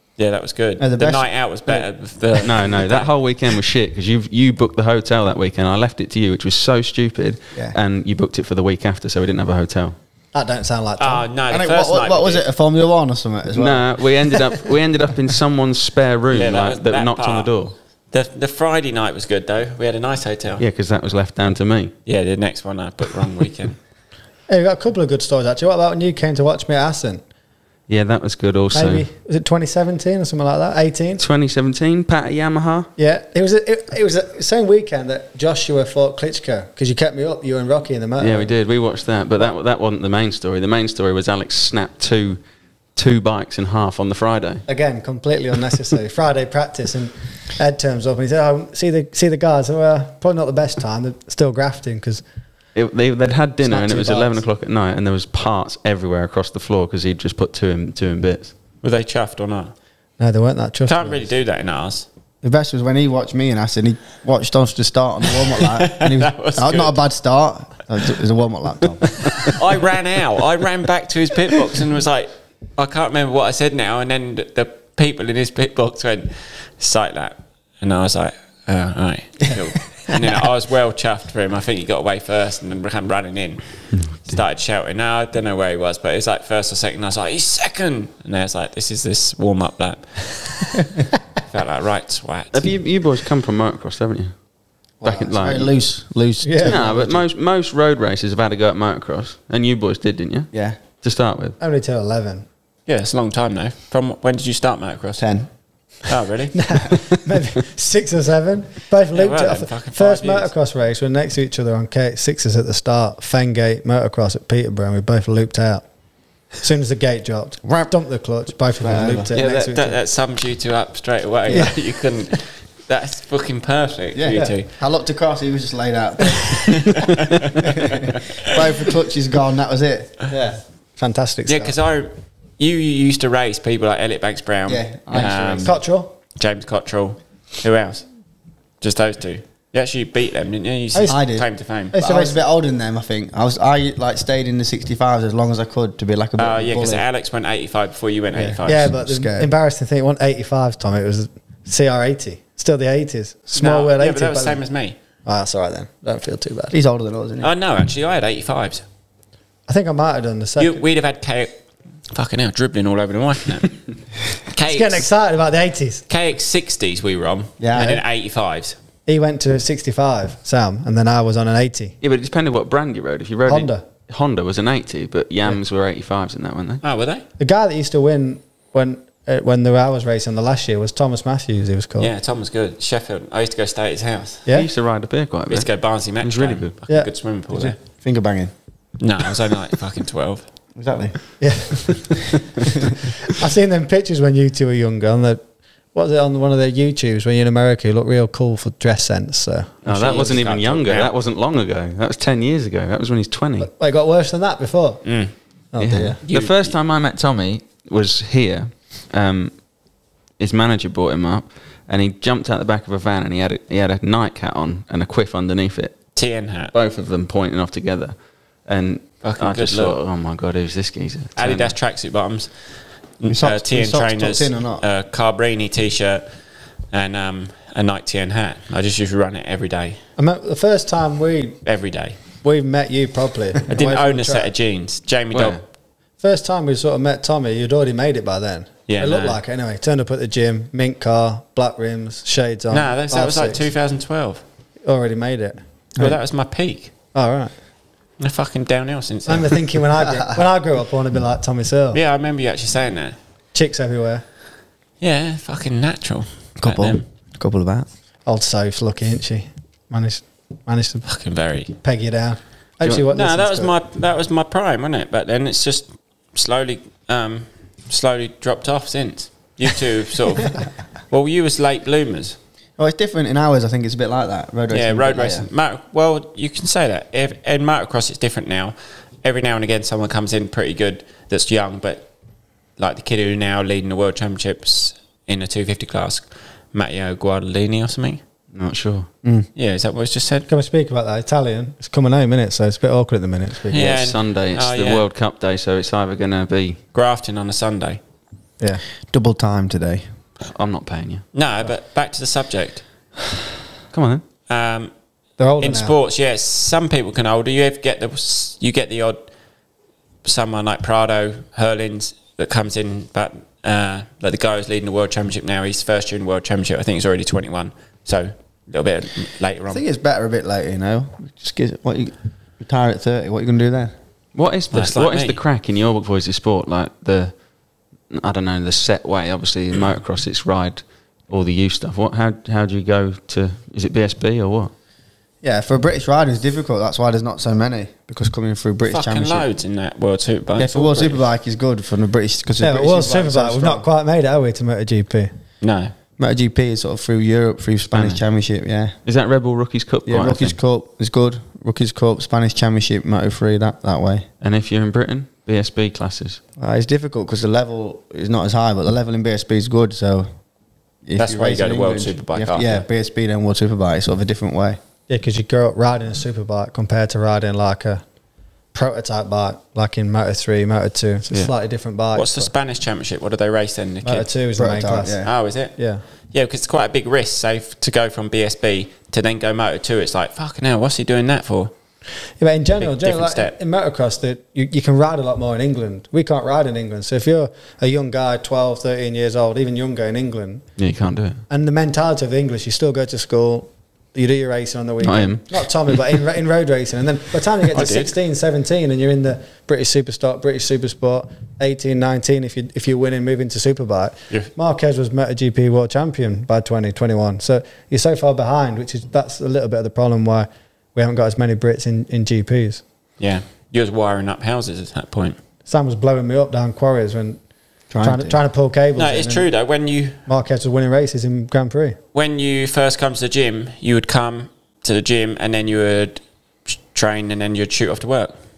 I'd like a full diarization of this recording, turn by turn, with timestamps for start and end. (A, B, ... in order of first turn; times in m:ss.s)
0:00.2-0:03.1 A
0:00.8-0:01.9 B
0:02.4-0:10.0 C
0:10.3-0:11.3 D
0:11.0-0:12.4 A
0:11.5-0:14.0 B
0:13.6-0:17.8 C
0:16.3-0:17.5 A
0:18.1-0:20.6 A
0:20.6-0:21.9 C
0:22.1-0:23.8 A
0:24.5-0:27.2 D
0:27.9-0:29.1 C
0:28.7-0:31.2 D
0:31.2-0:32.9 C
0:33.0-0:38.5 D
0:38.2-0:42.4 C
0:42.9-0:44.6 C
0:44.7-0:52.2 D
0:52.8-0:58.5 C
0:53.6-0:54.4 D
0:58.8-0:59.7 A
1:00.2-1:01.3 D
1:00.9-1:02.1 A
1:02.4-1:09.5 B
1:05.6-1:07.0 A
1:09.4-1:30.8 A
1:23.9-1:24.4 C
1:31.5-1:32.8 A
1:32.5-1:34.5 C
1:35.0-1:35.9 C
1:35.0-1:37.2 B
1:36.4-1:36.8 D
1:36.6-1:41.6 C
1:40.5-1:40.8 B
1:41.6-1:42.4 D
1:42.9-1:45.3 A
1:45.2-1:45.5 B
1:46.0-1:47.0 A
1:46.5-1:55.9 D
1:49.1-1:50.5 A
1:56.5-2:00.0 D
1:57.6-1:57.9 B
1:58.8-1:59.3 B
1:59.3-2:04.7 A
2:01.5-2:01.8 B
2:01.5-2:01.8 D
2:04.1-2:07.1 B
2:07.0-2:08.0 A
2:08.4-2:10.2 B
2:10.3-2:11.7 D
2:11.5-2:15.8 A
2:14.7-2:15.7 B
2:15.6-2:16.1 D
2:16.4-2:18.1 A
2:18.8-2:21.9 A
2:20.9-2:21.2 D
2:21.1-2:27.0 B
2:21.9-2:22.4 D
2:26.4-2:28.9 A
2:28.3-2:29.5 B
2:28.6-2:34.6 D
2:33.5-2:35.0 A
2:35.3-2:36.7 D
2:36.7-2:37.5 B
2:37.4-2:38.8 A
2:39.7-2:40.8 D
2:40.6-2:45.1 A
2:44.7-2:46.0 D
2:46.1-2:48.8 A
2:47.6-2:48.0 B
2:49.1-2:52.0 D
2:52.0-2:56.8 C
2:53.5-2:53.8 D
2:56.8-2:57.2 A
2:57.4-3:02.1 D
3:02.0-3:04.5 A
3:04.5-3:06.7 C
3:05.5-3:07.8 A
3:06.9-3:07.8 D
3:07.6-3:08.5 B
3:09.0-3:10.4 A
3:10.8-3:11.4 B
3:11.4-3:12.3 D
3:13.4-3:20.3 D
3:19.8-3:21.2 A
3:19.8-3:23.7 C
3:23.6-3:26.2 D
3:25.0-3:25.4 A
3:25.8-3:29.7 C
3:26.2-3:26.8 A
3:30.4-3:36.2 C
3:36.2-3:36.7 A
3:36.7-3:41.7 C
3:39.2-3:40.0 A
3:41.4-3:46.3 A
3:43.3-3:44.8 B
3:46.9-3:50.0 A
3:50.2-3:51.6 D
3:51.6-3:52.2 A
3:52.4-3:54.5 D
3:53.7-3:55.6 A
3:55.3-3:55.6 C
3:56.2-4:03.6 D
3:58.9-3:59.4 A
4:02.7-4:04.4 A
4:03.1-4:03.5 B
4:04.8-4:06.2 D
4:06.0-4:06.9 A
4:07.1-4:07.5 D
4:08.2-4:09.7 A
4:09.3-4:12.0 D
4:10.2-4:10.4 B
4:11.9-4:13.2 A
4:13.5-4:14.2 D
4:15.0-4:17.0 A
4:16.6-4:17.9 B
4:18.2-4:23.7 D
4:21.1-4:21.7 A
4:23.1-4:32.4 A
4:32.8-4:35.5 B
4:34.7-4:42.1 A
4:42.8-4:48.2 A
4:48.5-4:49.1 C
4:49.2-4:49.5 B
4:49.6-4:50.5 A
4:50.5-4:53.9 D
4:53.7-4:55.0 A
4:53.7-4:56.8 C
4:56.9-4:58.0 A
4:59.1-5:00.1 B
5:00.5-5:01.3 C
5:01.3-5:02.9 A
5:03.9-5:04.2 C
5:04.5-5:04.9 A
5:05.4-5:05.9 D
5:05.6-5:09.3 A
5:10.2-5:19.8 A
5:19.7-5:24.0 B
5:24.4-5:27.4 C
5:24.7-5:25.4 A
5:28.1-5:34.7 C
5:35.4-5:39.5 B
5:38.9-5:41.2 A
5:40.6-5:43.9 B
5:42.6-5:45.3 D
5:45.6-5:45.9 A
5:46.2-5:49.0 B
5:47.9-5:48.2 C
5:49.0-5:50.6 C
5:50.1-5:54.3 B
5:54.4-5:56.4 C
5:56.6-6:00.4 B
6:01.0-6:04.8 B
6:01.2-6:02.8 A
6:05.1-6:08.0 D
6:08.7-6:12.5 D
6:12.1-6:14.3 A
6:14.0-6:16.0 D
6:14.6-6:15.3 B
6:15.2-6:21.7 A
6:22.4-6:30.8 D
6:22.8-6:23.5 A
6:30.8-6:31.4 C
6:31.5-6:52.8 D
6:35.0-6:35.6 C
6:37.8-6:38.1 A
6:53.2-6:55.4 A
6:55.7-6:59.5 D
6:57.9-6:58.4 B
6:59.0-7:00.2 A
7:00.3-7:02.0 D
7:02.1-7:08.3 A